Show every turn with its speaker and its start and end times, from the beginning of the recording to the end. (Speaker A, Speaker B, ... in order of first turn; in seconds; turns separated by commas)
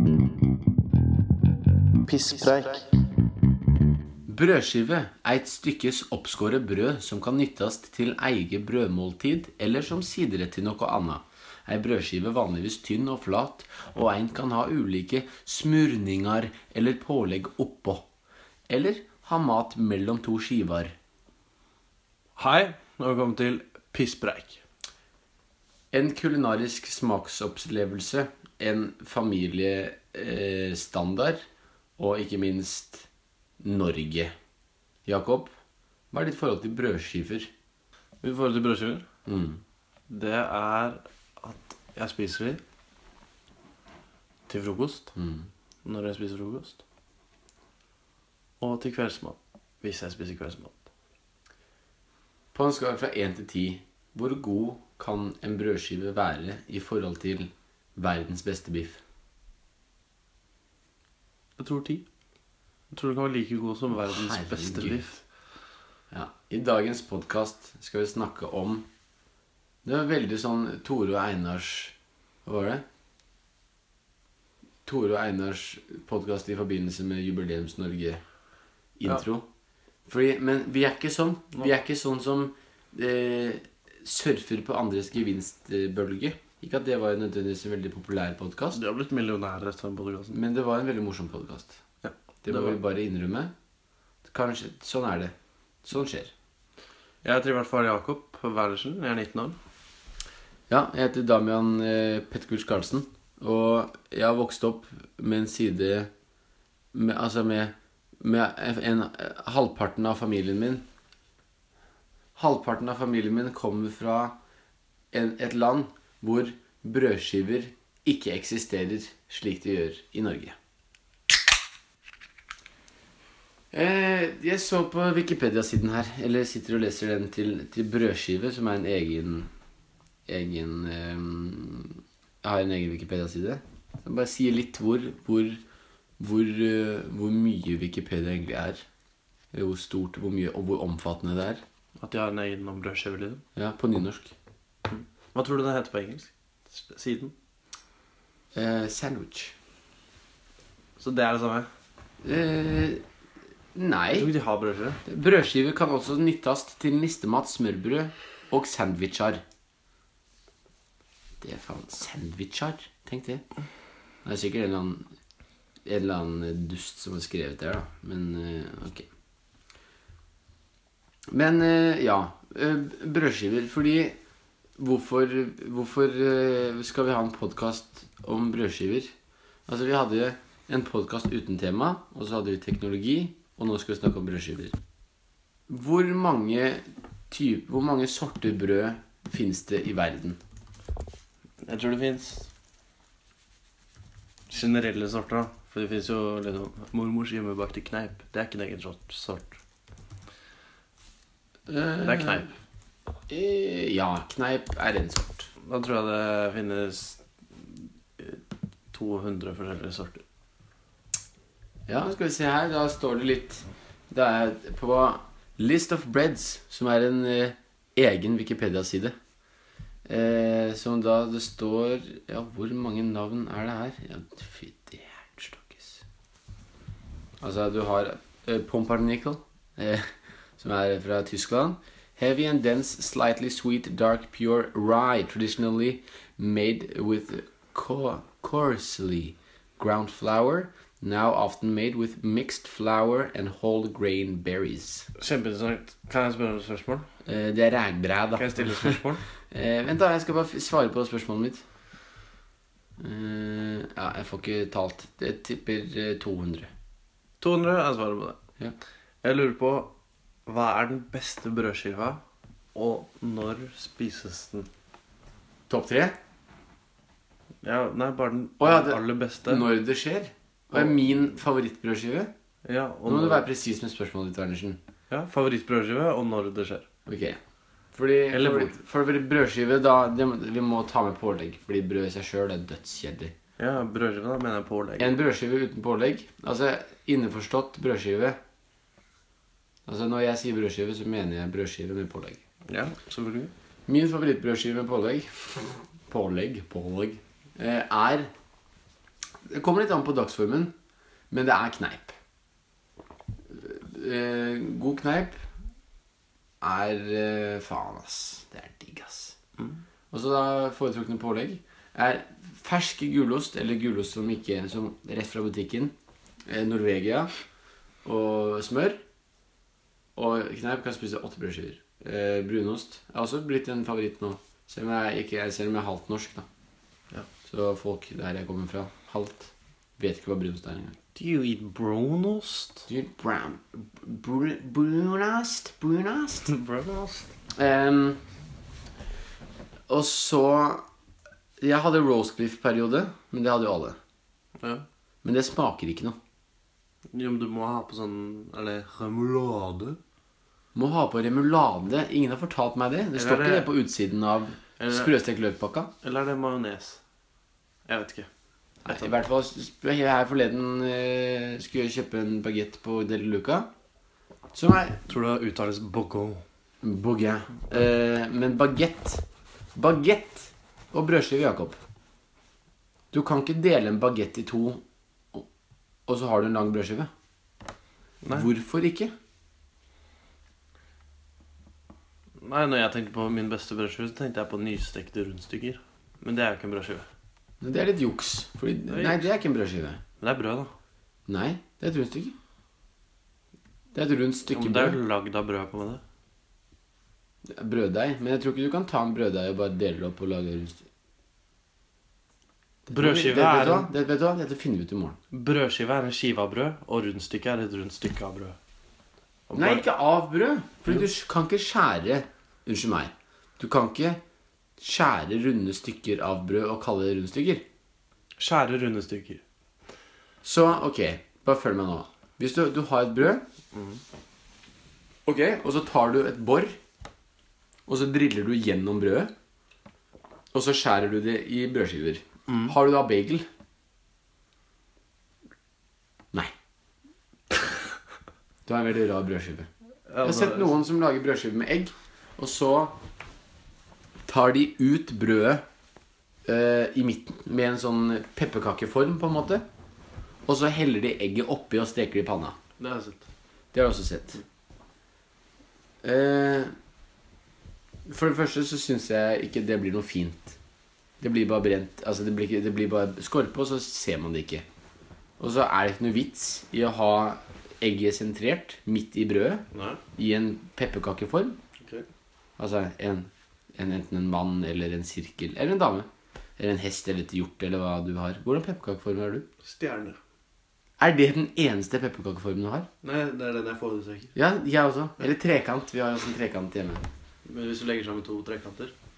Speaker A: 2.0-2.9, Speaker B: 4.3-18.1, Speaker B: 18.7-20.9, Speaker A: 22.4-24.6, Speaker B: 25.9-31.4, Speaker B: 32.0-33.1, Speaker B: 33.6-34.3, Speaker B: 35.0-35.5, Speaker B: 36.1-37.5, Speaker A: 38.2-39.0, Speaker B: 39.3-39.6, Speaker A: 40.1-42.6, Speaker A: 44.5-45.1, Speaker B: 45.2-45.5, Speaker A: 45.9-46.8, Speaker A: 48.6-50.8, Speaker B: 52.5-59.0, Speaker A: 61.6-62.1, Speaker A: 62.9-65.2, Speaker B: 64.0-65.0, Speaker B: 66.1-68.9, Speaker B: 69.8-72.8, Speaker B: 74.9-78.2, Speaker B: 79.0-79.5, Speaker B: 80.1-88.8, Speaker A: 88.7-90.4, Speaker B: 90.3-91.8, Speaker A: 92.0-92.8, Speaker B: 92.4-93.5, Speaker B: 94.2-96.3, Speaker A: 97.2-99.6, Speaker B: 100.7-106.1, Speaker B: 106.9-110.9, Speaker B: 112.4-114.4, Speaker B: 115.1-120.5, Speaker B: 123.7-129.5, Speaker B: 130.3-135.6, Speaker B: 136.2-138.8, Speaker B: 139.5-141.6, Speaker A: 142.0-143.4, Speaker B: 143.6-144.3, Speaker A: 144.9-147.3, Speaker B: 148.5-149.6, Speaker A: 151.0-151.7, Speaker B: 152.2-153.0, Speaker B: 153.8-154.3, Speaker A: 154.1-155.0, Speaker B: 155.1-159.4, Speaker B: 161.4-163.4, Speaker B: 164.2-165.1, Speaker B: 165.8-169.1, Speaker B: 171.3-174.2, Speaker B: 174.8-179.1, Speaker B: 179.7-184.8, Speaker B: 185.7-190.4, Speaker A: 191.6-192.5, Speaker A: 194.5-199.6, Speaker B: 201.7-202.5, Speaker A: 202.0-202.5, Speaker B: 203.3-205.5, Speaker A: 205.6-210.2, Speaker B: 211.9-219.2, Speaker B: 220.1-226.0, Speaker B: 227.4-245.1, Speaker A: 245.2-247.1, Speaker B: 247.2-251.6, Speaker A: 248.4-249.3, Speaker B: 253.0-256.7, Speaker A: 257.4-258.4, Speaker A: 259.2-259.9, Speaker A: 260.5-262.2, Speaker A: 262.8-264.7, Speaker B: 265.7-266.2, Speaker A: 267.6-269.7, Speaker B: 268.6-272.3, Speaker A: 272.6-273.5, Speaker B: 273.1-274.8, Speaker A: 275.1-276.9, Speaker B: 277.1-277.4, Speaker B: 277.9-283.3, Speaker A: 278.3-278.8, Speaker A: 283.6-285.1, Speaker B: 285.0-288.4, Speaker B: 289.9-292.4, Speaker A: 292.7-293.5, Speaker B: 293.9-298.3, Speaker B: 299.5-300.7, Speaker B: 301.3-302.1, Speaker B: 303.5-305.4, Speaker B: 306.6-309.4, Speaker B: 310.1-315.9, Speaker B: 316.5-317.3, Speaker B: 318.1-319.0, Speaker B: 320.2-326.5, Speaker B: 327.4-331.0, Speaker A: 331.1-332.9, Speaker B: 332.9-336.5, Speaker A: 336.5-337.3, Speaker B: 337.6-338.2, Speaker B: 339.9-340.8, Speaker B: 341.6-344.0, Speaker A: 344.6-344.9, Speaker B: 345.2-346.2, Speaker A: 347.1-350.0, Speaker B: 350.8-355.9, Speaker A: 353.1-353.7, Speaker A: 354.8-355.1, Speaker A: 356.0-357.0, Speaker A: 357.9-358.3, Speaker B: 358.9-363.7, Speaker B: 364.5-365.0, Speaker A: 365.1-366.4, Speaker B: 366.8-371.8, Speaker B: 373.1-375.5, Speaker B: 376.1-377.1, Speaker A: 378.2-378.5, Speaker B: 378.3-379.1, Speaker A: 382.4-387.1, Speaker B: 387.6-390.0, Speaker A: 388.9-389.3, Speaker A: 390.2-390.7, Speaker B: 391.3-392.4, Speaker B: 393.9-395.0, Speaker A: 394.5-396.0, Speaker B: 397.4-400.9, Speaker B: 402.9-405.2, Speaker A: 402.9-403.9, Speaker A: 405.3-408.6, Speaker A: 409.5-409.9, Speaker B: 409.5-414.2, Speaker B: 414.8-417.6, Speaker A: 418.4-419.4, Speaker B: 420.4-423.4, Speaker A: 423.8-424.0, Speaker B: 425.2-426.8, Speaker B: 427.9-429.3, Speaker B: 430.5-433.5, Speaker A: 432.5-432.8, Speaker B: 438.7-439.7, Speaker A: 440.1-440.7, Speaker B: 440.2-443.0, Speaker B: 444.3-445.6, Speaker B: 446.4-449.6, Speaker B: 450.4-452.6, Speaker A: 452.8-453.2, Speaker B: 453.7-454.4, Speaker B: 456.0-456.7, Speaker B: 458.1-460.6, Speaker B: 461.2-464.6, Speaker B: 465.4-471.6, Speaker A: 469.7-470.0, Speaker A: 471.8-472.1, Speaker B: 472.6-476.1, Speaker B: 476.6-479.5, Speaker A: 479.6-480.2, Speaker B: 481.0-482.9, Speaker A: 483.0-484.4, Speaker B: 484.4-487.1, Speaker A: 487.5-488.9